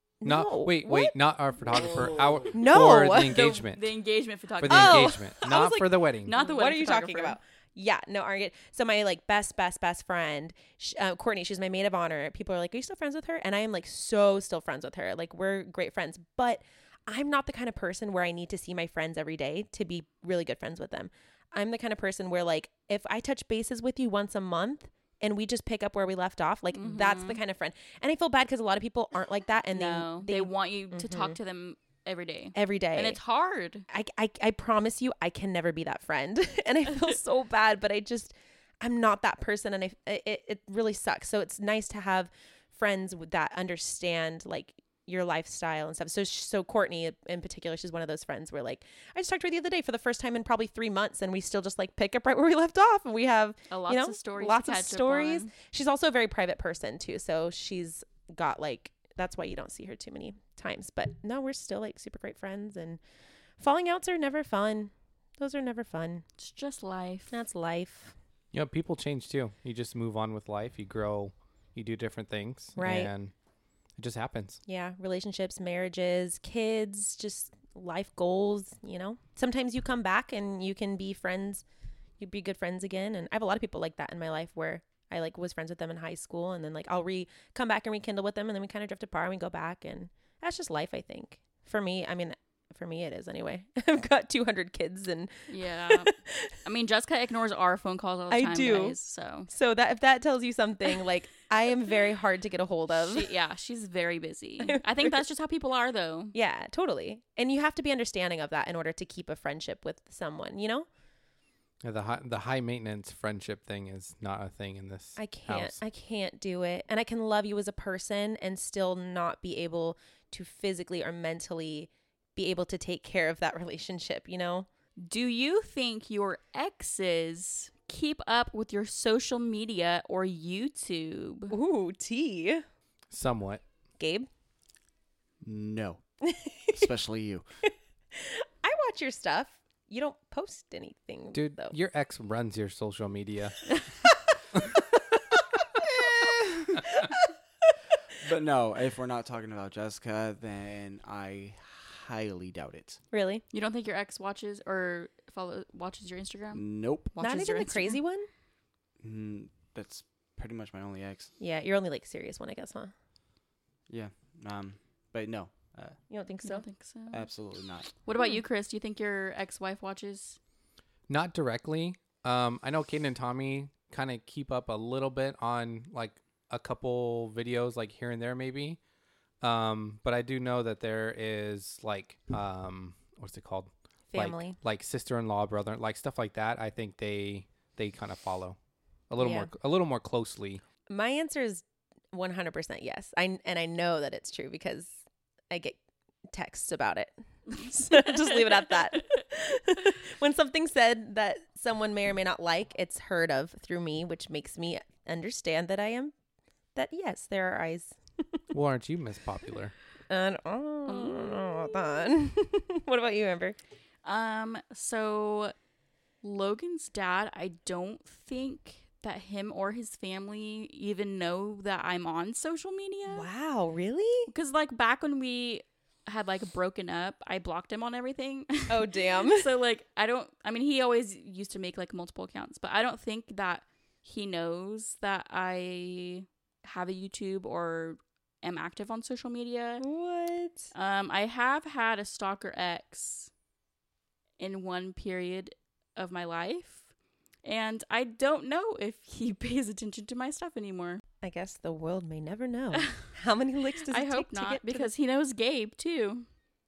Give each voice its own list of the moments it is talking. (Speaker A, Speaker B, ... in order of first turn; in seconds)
Speaker A: 0.2-1.1, 2.5-3.5, 4.6-31.4, 32.5-33.2, 33.9-63.0, 63.6-66.2, 67.3-68.1, 72.8-73.1, 74.7-81.6, 82.2-96.5, 98.3-99.0, 99.5-103.3, 104.6-105.1, 106.3-110.9, 115.2-124.7, 131.5-132.6, 134.0-134.3, 136.2-136.9, 137.7-141.7, 145.8-147.7, 153.1-153.4, 157.2-158.3, 161.4-162.9, 166.1-166.6, 184.1-184.6, 189.2-189.5, 190.9-195.8, 196.3-206.1, 206.7-208.4, 210.1-213.6, 223.1-224.3, 228.7-229.5, 239.8-240.7, 251.2-254.9
Speaker B: 0.2-3.9, 4.6-6.3, 68.5-73.3, 74.0-74.6, 111.8-115.8, 133.1-133.6, 141.3-143.7, 171.1-178.8, 179.4-188.6, 189.1-190.6, 208.5-209.7
Speaker C: 3.2-5.1, 6.2-7.4, 26.7-27.4, 29.7-33.9, 53.7-55.5, 66.4-67.4, 95.5-99.5, 102.9-106.3, 125.0-131.5, 153.5-158.0, 166.4-167.3, 168.0-170.4, 210.8-211.7, 214.0-215.5, 216.2-223.2, 224.3-239.8, 240.7-243.3, 244.4-246.9, 247.4-251.0, 253.9-256.2
Speaker D: 135.4-136.0, 136.7-137.4, 146.0-146.8, 148.2-153.0, 156.5-157.1, 159.0-161.3, 163.9-166.0, 167.1-167.9